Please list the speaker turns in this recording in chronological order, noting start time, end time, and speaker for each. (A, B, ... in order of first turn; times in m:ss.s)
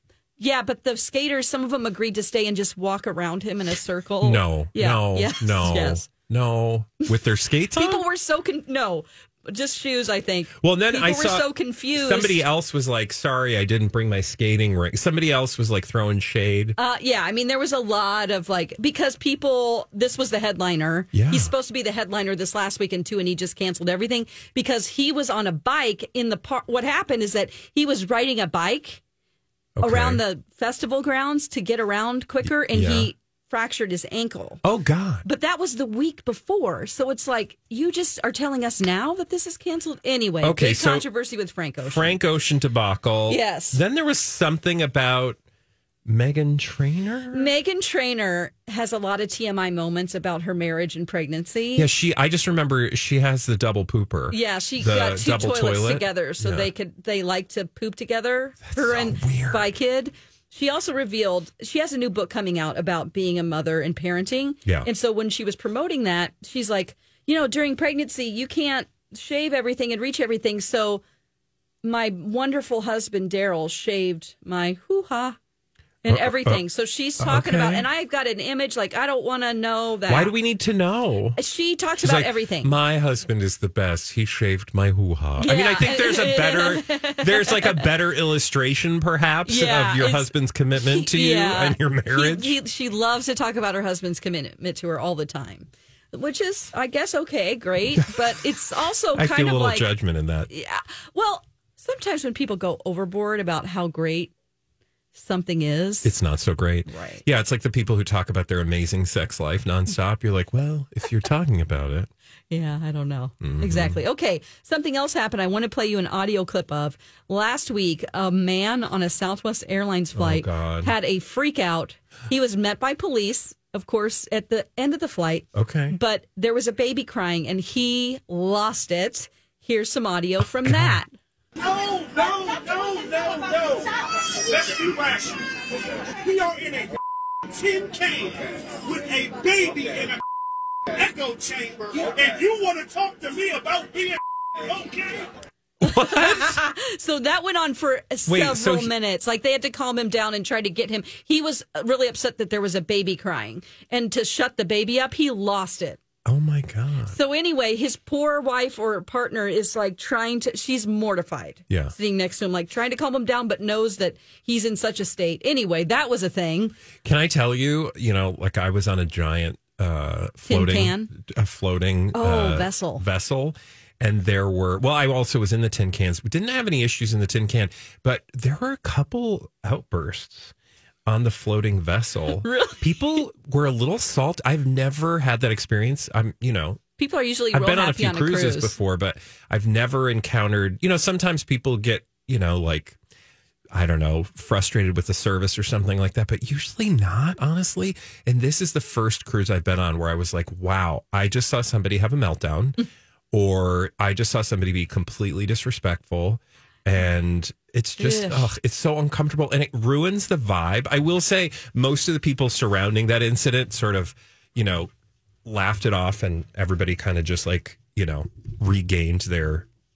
0:00.4-0:06.0 A
0:04.2-0:08.0 B
0:07.7-0:12.4 A
0:10.6-0:16.8 B
0:16.8-0:29.0 A
0:21.1-0:21.5 B
0:29.8-0:30.2 B
0:29.8-0:34.6 A
0:32.7-0:33.1 B
0:34.6-0:35.2 B
0:35.2-0:42.2 A
0:40.4-0:41.1 B
0:41.8-0:45.4 B
0:43.3-0:43.8 A
0:46.0-0:47.5 B
0:47.3-0:51.9 A
0:51.7-0:56.7 B
0:54.3-1:11.0 A
0:58.7-0:59.6 B
1:11.8-1:15.4 A
1:16.0-1:20.3 A
1:16.1-1:16.6 B
1:17.2-1:17.8 B
1:20.1-1:21.4 B
1:21.4-1:22.7 A
1:22.0-1:32.6 B
1:25.4-1:27.9 A
1:29.4-1:40.0 A
1:39.1-1:40.5 B
1:40.5-1:44.3 A
1:45.1-1:46.1 A
1:46.0-1:52.1 B
1:46.9-1:47.2 A
1:52.5-2:11.1 A
1:53.4-1:54.0 B
2:00.1-2:00.9 B
2:05.5-2:06.0 B
2:10.6-2:11.0 B
2:11.6-2:15.6 C
2:16.2-2:17.0 C
2:17.5-2:20.2 C
2:20.9-2:25.3 C
2:25.8-2:26.6 B
2:25.8-2:36.0 A
2:28.3-2:28.9 B
2:36.2-2:37.1 B
2:37.1-2:46.7 A
2:41.7-2:41.9 B
2:47.0-3:00.5 B
2:50.4-2:51.1 A
2:52.1-2:53.0 A
3:01.1-3:06.8 B
3:02.4-3:02.8 A
3:07.0-3:08.8 A
3:07.5-3:13.0 B
3:13.7-3:22.8 B
3:23.3-3:34.9 B
3:28.0-3:28.5 A
3:35.4-3:39.6 B